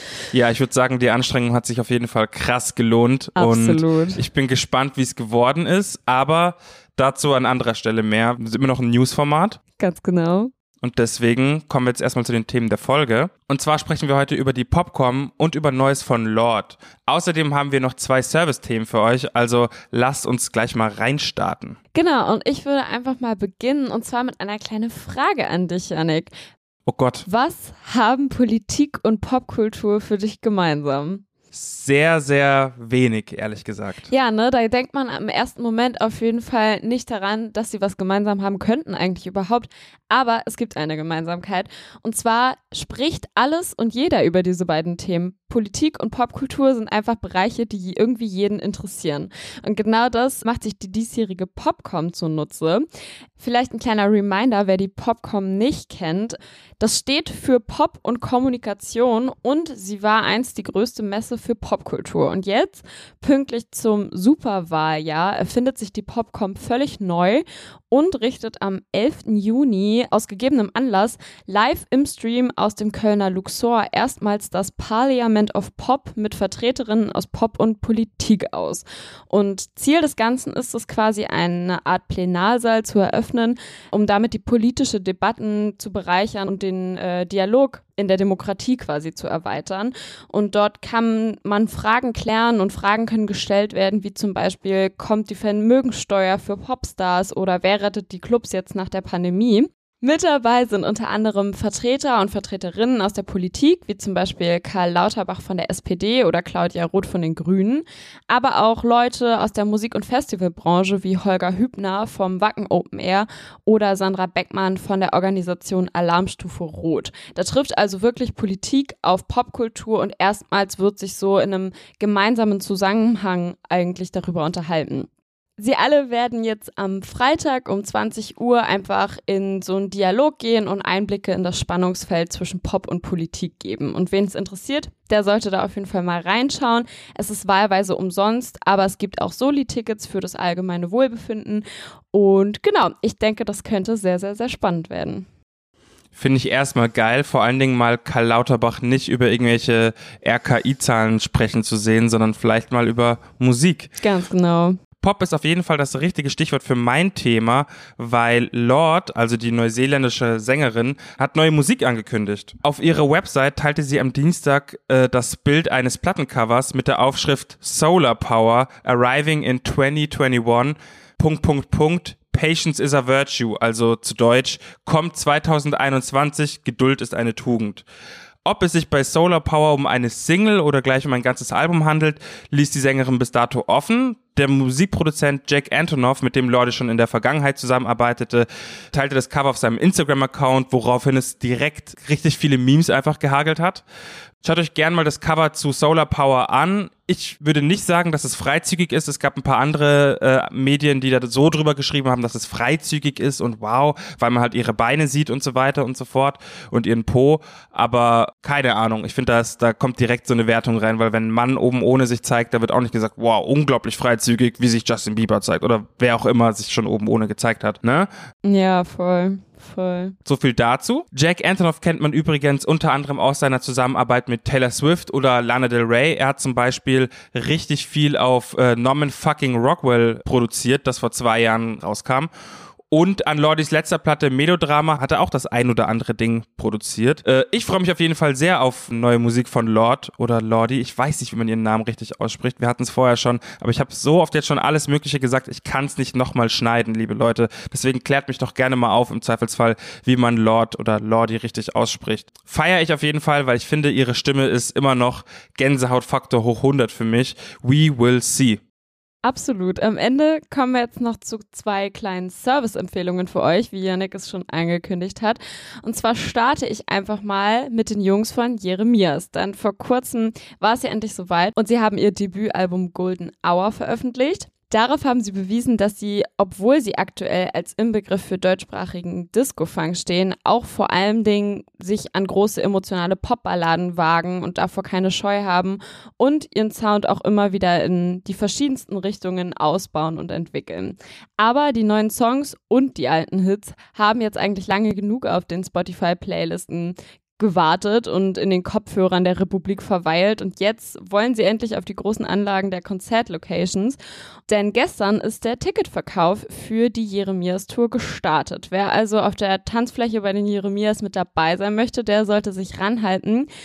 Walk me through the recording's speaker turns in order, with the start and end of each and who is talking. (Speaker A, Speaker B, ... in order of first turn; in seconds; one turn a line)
Speaker A: 0.3-9.6
Speaker B: 3.4-4.2
Speaker B: 9.8-10.5
Speaker A: 10.8-21.8
Speaker B: 21.9-26.3
Speaker A: 26.9-27.2
Speaker B: 27.2-31.2
Speaker A: 31.5-34.1
Speaker B: 34.1-52.8
Speaker B: 53.4-145.2
Speaker A: 146.1-153.9
Speaker B: 154.0-154.8
Speaker A: 155.0-177.8
Speaker A: 178.4-193.8
Speaker A: 194.4-218.1
Speaker B: 218.4-220.1
Speaker A: 220.2-232.3
Speaker A: 232.9-258.6
Speaker B: 259.2-313.5